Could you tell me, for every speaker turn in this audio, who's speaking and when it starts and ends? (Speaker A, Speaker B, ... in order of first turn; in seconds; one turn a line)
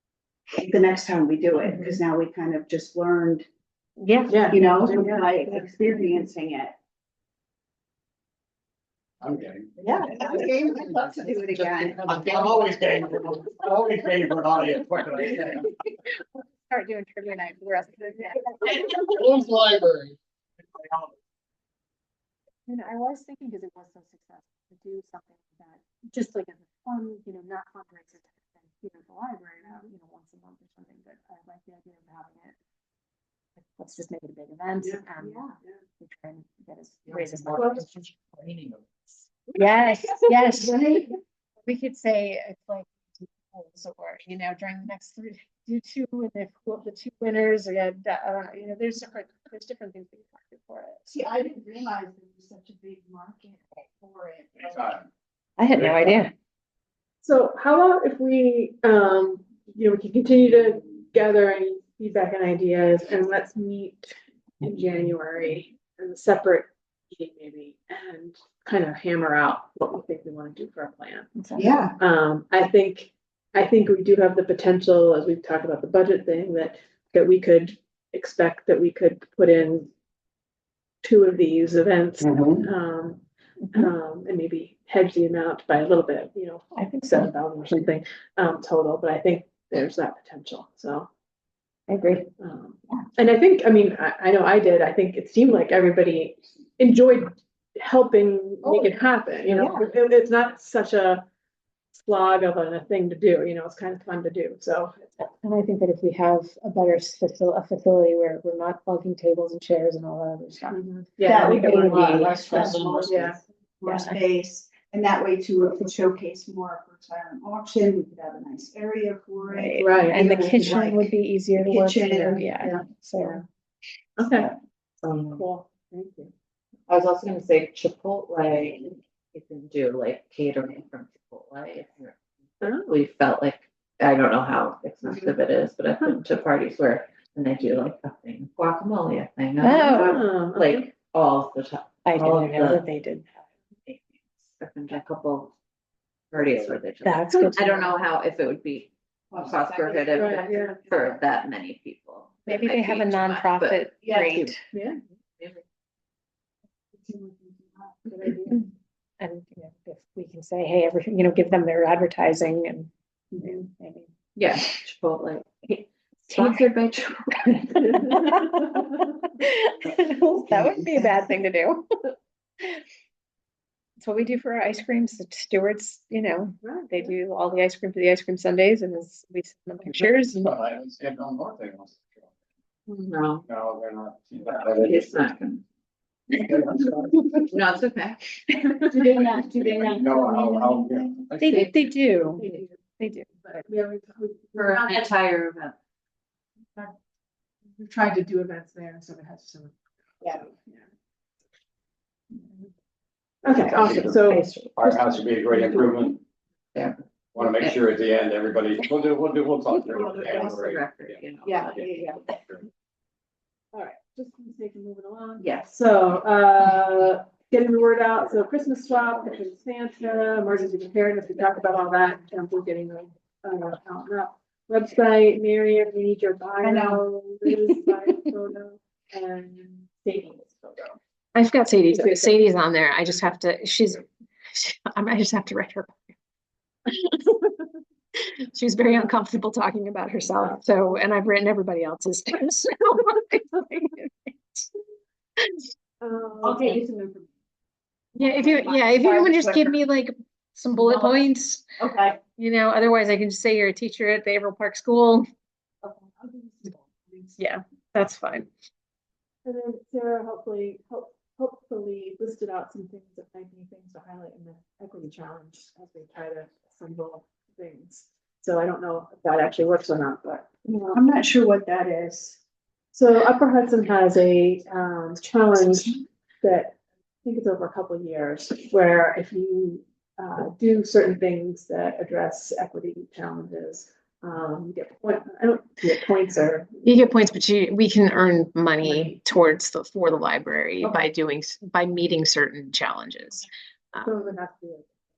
Speaker A: 0.6-3.5
Speaker B: 1.7-2.0
Speaker B: 4.0-5.2
Speaker C: 4.3-5.7
Speaker A: 4.5-6.8
Speaker D: 9.2-15.7
Speaker A: 9.8-13.2
Speaker B: 16.7-19.1
Speaker D: 18.9-21.1
Speaker B: 22.7-32.6
Speaker B: 33.6-35.5
Speaker A: 35.2-35.5
Speaker B: 36.0-37.9
Speaker E: 37.1-39.2
Speaker B: 39.5-51.1
Speaker A: 40.6-41.0
Speaker A: 51.1-55.0
Speaker D: 54.6-55.1
Speaker B: 55.6-56.3
Speaker D: 55.7-56.2
Speaker C: 57.2-71.4
Speaker B: 71.4-71.9
Speaker A: 71.6-72.0
Speaker C: 72.0-79.9
Speaker C: 81.0-91.1
Speaker D: 82.2-82.6
Speaker B: 86.8-87.8
Speaker B: 91.9-92.3
Speaker C: 92.4-101.2
Speaker B: 99.5-99.8
Speaker C: 102.0-105.0
Speaker B: 105.2-112.8
Speaker C: 110.7-113.4
Speaker A: 111.2-122.9
Speaker E: 112.5-113.1
Speaker B: 113.9-114.2
Speaker B: 119.5-123.4
Speaker C: 119.8-120.2
Speaker C: 124.2-124.5
Speaker E: 125.0-125.4
Speaker C: 125.3-126.3
Speaker E: 126.9-142.8
Speaker C: 132.6-132.9
Speaker C: 135.1-135.3
Speaker B: 139.6-140.2
Speaker C: 140.0-140.9
Speaker B: 142.1-143.3
Speaker E: 143.9-145.5
Speaker E: 146.3-154.6
Speaker B: 147.0-148.0
Speaker A: 149.3-151.2
Speaker C: 150.2-150.8
Speaker B: 152.5-154.6
Speaker A: 154.0-154.4
Speaker C: 154.7-155.0
Speaker E: 155.4-155.6
Speaker A: 157.0-158.4
Speaker B: 158.1-158.7
Speaker B: 159.2-164.1
Speaker E: 164.4-168.7
Speaker B: 166.3-166.6
Speaker B: 168.1-171.8
Speaker A: 170.8-171.3
Speaker B: 174.0-180.5
Speaker C: 176.6-177.1
Speaker D: 179.8-182.3
Speaker E: 182.9-183.4
Speaker D: 183.4-185.2
Speaker E: 184.7-185.6
Speaker D: 186.4-187.3
Speaker E: 187.5-188.4
Speaker B: 188.5-192.5
Speaker D: 189.4-191.9
Speaker C: 192.4-192.8
Speaker B: 193.0-193.4
Speaker C: 193.4-195.1
Speaker E: 194.6-195.8
Speaker C: 197.8-200.8
Speaker C: 203.4-205.1
Speaker D: 203.7-206.2
Speaker B: 204.3-204.8
Speaker E: 206.8-207.8
Speaker D: 207.3-212.7
Speaker A: 209.7-210.7
Speaker E: 209.9-211.9
Speaker A: 211.4-212.2
Speaker C: 213.7-231.0
Speaker A: 226.6-227.0
Speaker B: 231.3-236.1
Speaker C: 231.9-232.3
Speaker B: 236.9-237.2
Speaker B: 238.2-244.7
Speaker C: 238.8-239.1
Speaker C: 240.3-241.0
Speaker B: 245.4-245.6
Speaker C: 246.0-246.7
Speaker A: 246.4-247.3
Speaker B: 248.2-251.6
Speaker A: 248.2-249.8
Speaker A: 250.7-252.2
Speaker B: 252.3-255.3
Speaker A: 255.8-257.4
Speaker B: 257.4-258.5
Speaker C: 259.4-271.0
Speaker A: 270.9-272.4
Speaker C: 272.9-287.0
Speaker B: 286.8-294.1
Speaker C: 288.8-289.1
Speaker C: 294.0-295.0